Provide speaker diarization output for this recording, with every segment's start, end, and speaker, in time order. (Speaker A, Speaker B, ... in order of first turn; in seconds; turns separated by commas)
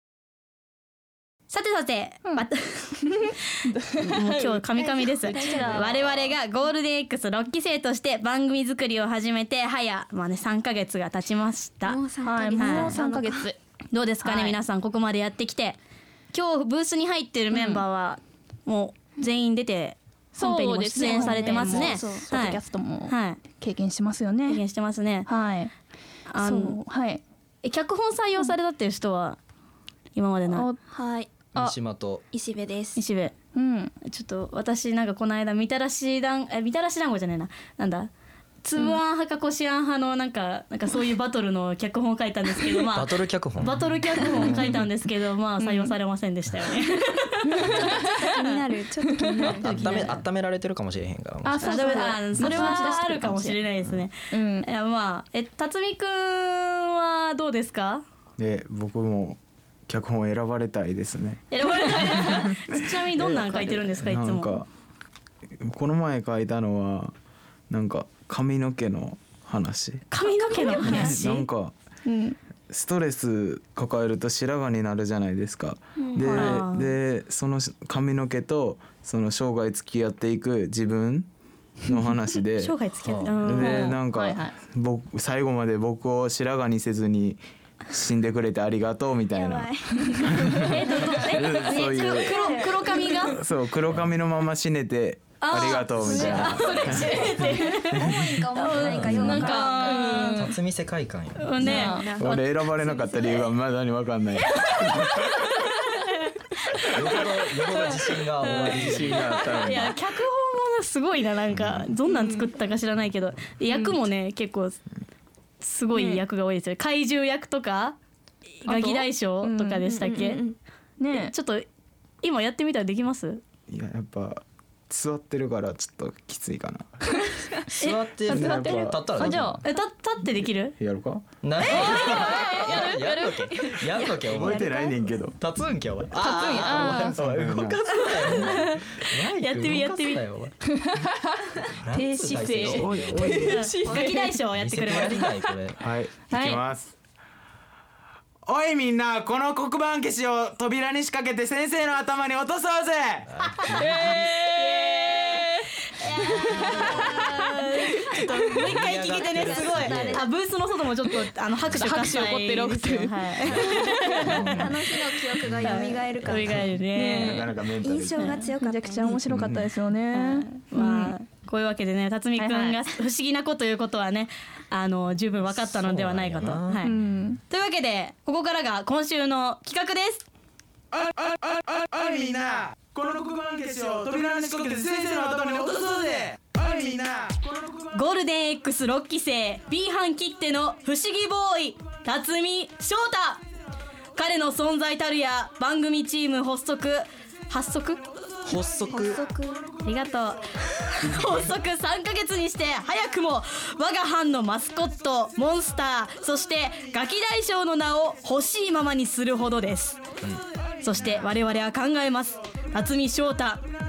Speaker A: 1.5-12.0, Speaker B: 3.0-6.0, Speaker C: 4.8-6.3, Speaker C: 11.8-13.5, Speaker B: 12.2-13.6, Speaker A: 12.6-13.0, Speaker A: 13.9-15.8, Speaker B: 14.2-14.6, Speaker A: 16.3-23.4, Speaker B: 17.5-17.8, Speaker B: 20.4-24.6, Speaker C: 21.0-22.3, Speaker A: 24.5-25.3, Speaker B: 25.3-25.7, Speaker A: 26.3-26.8, Speaker B: 26.4-27.2, Speaker A: 27.6-29.4, Speaker A: 30.1-30.7, Speaker B: 30.5-30.8, Speaker C: 30.9-31.3, Speaker D: 31.5-32.2, Speaker C: 32.3-33.0, Speaker A: 33.0-33.4, Speaker B: 33.5-33.9, Speaker A: 34.0-38.1, Speaker A: 38.6-48.6, Speaker D: 42.9-44.7, Speaker B: 45.6-45.9, Speaker B: 47.5-48.3, Speaker C: 47.6-50.1, Speaker B: 49.1-49.7, Speaker D: 49.4-52.2, Speaker A: 49.6-50.2, Speaker B: 51.4-53.6, Speaker A: 51.6-58.0, Speaker C: 52.4-53.1, Speaker B: 54.3-54.7, Speaker E: 58.4-64.7, Speaker A: 61.5-64.6, Speaker E: 65.6-67.1, Speaker E: 67.7-70.1, Speaker A: 70.1-71.5, Speaker B: 70.5-71.1, Speaker E: 70.8-71.7, Speaker B: 72.0-72.4, Speaker E: 72.7-81.3, Speaker C: 76.0-76.5, Speaker B: 76.2-76.6, Speaker A: 76.3-76.9, Speaker E: 81.8-82.8, Speaker A: 82.6-84.0, Speaker D: 83.0-83.4, Speaker E: 83.3-92.5, Speaker B: 83.5-84.5, Speaker C: 89.3-93.3, Speaker A: 90.6-93.4, Speaker E: 93.3-97.4, Speaker A: 95.4-100.4, Speaker C: 95.5-100.2, Speaker D: 96.0-96.6, Speaker B: 96.1-97.8, Speaker E: 97.9-98.3, Speaker D: 98.7-99.5, Speaker B: 99.0-100.6, Speaker D: 100.3-101.8, Speaker A: 101.4-102.4, Speaker B: 101.6-102.1, Speaker C: 101.6-103.5, Speaker E: 102.2-105.4, Speaker A: 105.4-107.0, Speaker D: 106.9-109.3, Speaker E: 108.4-110.0, Speaker A: 108.4-114.8, Speaker B: 112.1-112.5, Speaker A: 115.6-118.0, Speaker B: 115.9-116.2, Speaker A: 118.6-120.4, Speaker B: 118.7-119.9, Speaker C: 119.9-120.6, Speaker B: 121.0-121.3, Speaker A: 121.1-121.7, Speaker A: 122.2-123.4, Speaker E: 123.7-126.9, Speaker B: 127.2-127.6, Speaker D: 127.7-129.6, Speaker E: 128.3-129.6, Speaker B: 128.3-129.7, Speaker A: 129.6-130.8, Speaker E: 130.8-131.3, Speaker D: 131.4-134.7, Speaker B: 131.7-133.8, Speaker A: 131.7-132.3, Speaker C: 133.9-135.0, Speaker E: 134.2-135.4, Speaker D: 135.4-140.6, Speaker B: 136.2-137.2, Speaker E: 136.8-137.8, Speaker A: 138.0-140.2, Speaker B: 140.7-144.4, Speaker D: 141.8-143.5, Speaker E: 142.5-143.7, Speaker A: 143.4-145.3, Speaker C: 143.9-144.1, Speaker D: 144.5-145.8, Speaker E: 145.8-146.9, Speaker B: 146.3-146.6, Speaker E: 148.5-153.3, Speaker D: 153.3-154.4, Speaker B: 153.7-155.7, Speaker A: 154.0-164.9, Speaker C: 156.6-158.3, Speaker D: 158.6-160.2, Speaker C: 159.3-160.3, Speaker D: 161.7-162.1, Speaker B: 161.7-164.4, Speaker D: 163.5-164.7, Speaker C: 164.2-166.7, Speaker A: 165.6-167.4, Speaker B: 166.9-167.6, Speaker E: 167.1-168.3, Speaker C: 167.8-169.4, Speaker A: 168.2-168.5, Speaker B: 168.3-171.2, Speaker E: 169.3-169.7, Speaker A: 170.1-176.9, Speaker B: 172.4-172.9, Speaker D: 175.6-177.0, Speaker B: 176.8-177.4, Speaker A: 177.5-180.3, Speaker E: 180.9-187.4, Speaker A: 187.9-193.4, Speaker A: 194.2-198.1, Speaker D: 198.4-199.2, Speaker C: 198.9-199.7, Speaker A: 199.8-210.0, Speaker E: 201.0-201.4, Speaker A: 210.8-213.7